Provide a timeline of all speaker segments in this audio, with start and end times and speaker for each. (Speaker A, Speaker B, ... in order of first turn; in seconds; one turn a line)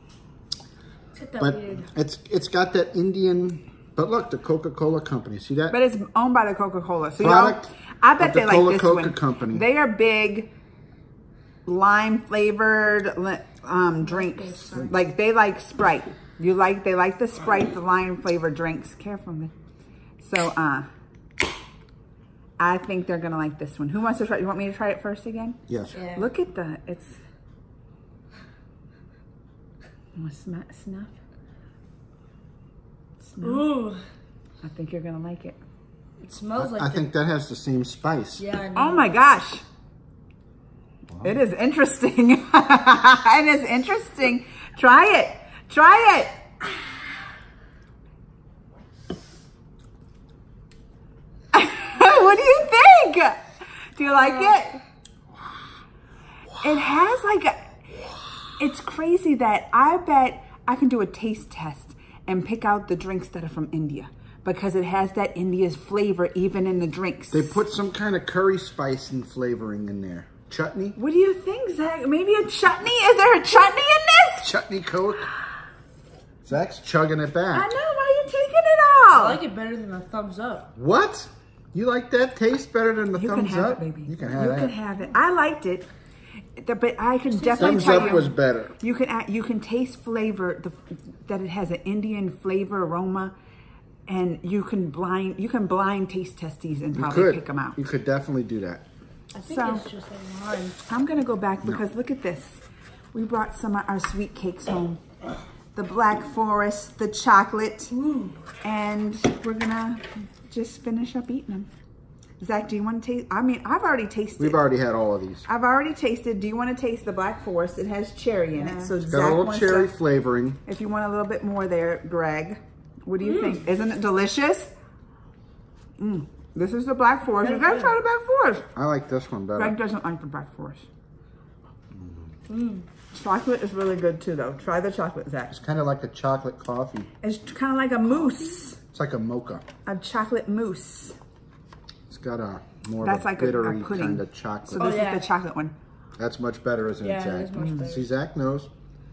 Speaker A: 1.1-1.9
Speaker B: 1.4-5.8
Speaker C: 5.7-10.5
Speaker B: 7.2-9.7
Speaker C: 11.7-19.5
Speaker A: 14.0-14.9
Speaker C: 20.2-20.9
Speaker C: 22.6-25.6
Speaker B: 25.7-26.0
Speaker A: 25.9-26.3
Speaker C: 26.1-27.2
Speaker C: 30.1-31.1
Speaker C: 33.2-33.7
Speaker A: 33.4-34.0
Speaker C: 34.6-35.6
Speaker A: 36.2-37.0
Speaker B: 36.5-38.4
Speaker A: 38.4-39.2
Speaker C: 38.7-39.6
Speaker C: 41.2-46.4
Speaker C: 51.5-54.8
Speaker A: 54.2-54.5
Speaker C: 56.6-57.7
Speaker C: 58.6-67.6
Speaker B: 67.3-71.0
Speaker C: 71.0-74.5
Speaker B: 74.4-75.3
Speaker B: 76.4-77.7
Speaker C: 77.5-79.4
Speaker A: 79.1-80.7
Speaker B: 80.8-84.7
Speaker C: 83.1-85.8
Speaker C: 86.5-93.3
Speaker A: 87.3-88.3
Speaker B: 87.6-88.7
Speaker C: 94.1-97.8
Speaker B: 96.9-98.8
Speaker A: 99.3-100.8
Speaker C: 99.4-99.8
Speaker C: 100.8-102.6
Speaker C: 103.1-105.0
Speaker C: 105.7-107.9
Speaker A: 108.0-108.3
Speaker C: 108.6-111.7
Speaker C: 112.4-114.6
Speaker B: 114.4-115.4
Speaker C: 115.4-119.9
Speaker A: 118.6-118.9
Speaker B: 119.0-120.6
Speaker C: 120.6-124.7
Speaker C: 126.0-128.7
Speaker A: 127.4-128.0
Speaker B: 128.7-129.8
Speaker C: 129.5-130.8
Speaker A: 132.5-132.8
Speaker C: 133.1-135.6
Speaker B: 135.5-137.1
Speaker C: 137.2-138.8
Speaker B: 138.9-139.6
Speaker C: 139.8-141.2
Speaker B: 142.1-145.0
Speaker C: 143.0-145.7
Speaker A: 144.8-145.2
Speaker B: 146.2-148.7
Speaker A: 147.0-148.1
Speaker C: 147.6-147.8